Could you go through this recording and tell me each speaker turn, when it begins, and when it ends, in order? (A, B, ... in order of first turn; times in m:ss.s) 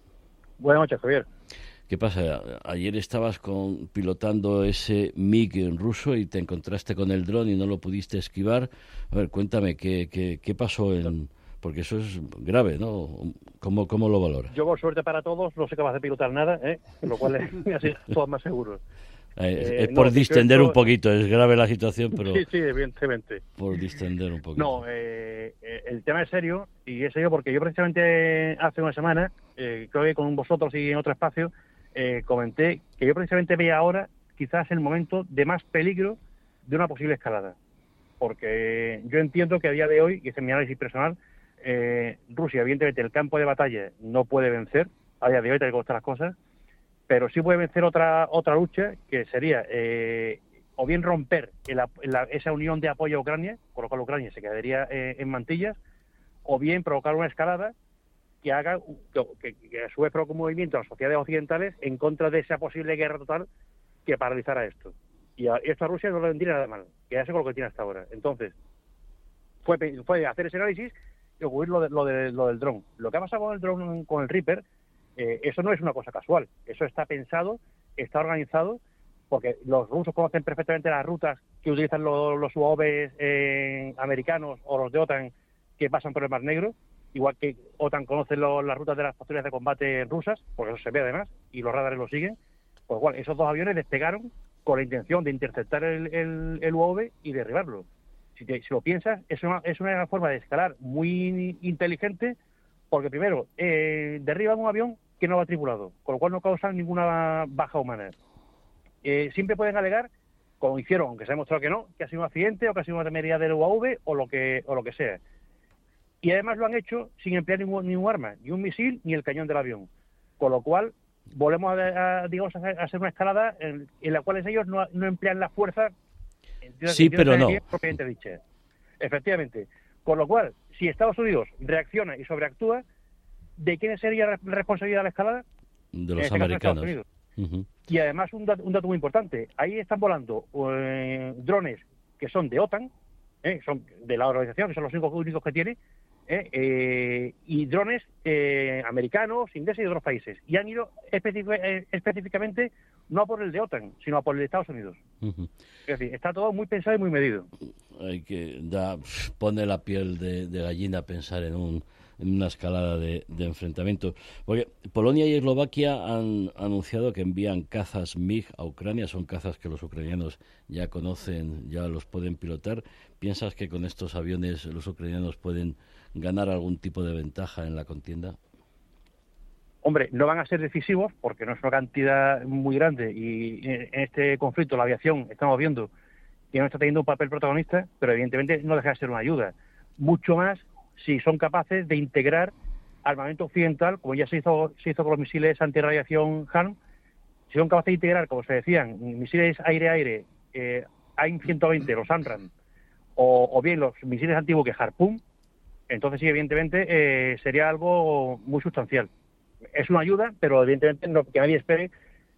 0:00.6-0:01.3 A
0:01.9-0:14.5 B
0:14.5-0:18.8 A
0:19.4-0:22.4 B
0:19.6-0:20.8 A
0:22.1-0:23.4 A
0:23.6-0:24.8 B
0:24.6-0:37.6 A
0:38.2-0:46.4 A
0:47.1-0:55.8 A
0:56.4-0:57.7 A
0:58.4-1:03.5 A
1:04.1-1:08.5 A
1:09.6-1:14.6 A
1:15.2-1:32.4 A
1:32.9-1:42.4 A
1:42.9-1:48.1 A
1:49.0-1:55.2 A
1:56.2-1:59.9 A
2:00.4-2:05.9 A
2:06.6-2:08.4 A
2:06.9-2:07.6 B
2:09.0-2:12.8 A
2:13.6-2:15.4 A
2:15.9-2:17.7 B
2:16.2-2:17.0 A
2:17.9-2:22.9 A
2:23.4-2:25.8 A
2:26.3-2:35.0 A
2:35.2-2:35.5 B
2:35.9-2:37.5 A
2:38.0-2:58.4 B
2:59.8-3:05.9 A
3:06.5-3:12.5 A
3:13.0-3:16.8 A
3:17.5-3:22.5 A
3:23.2-3:25.2 A
3:25.9-3:29.1 A
3:29.7-3:31.9 A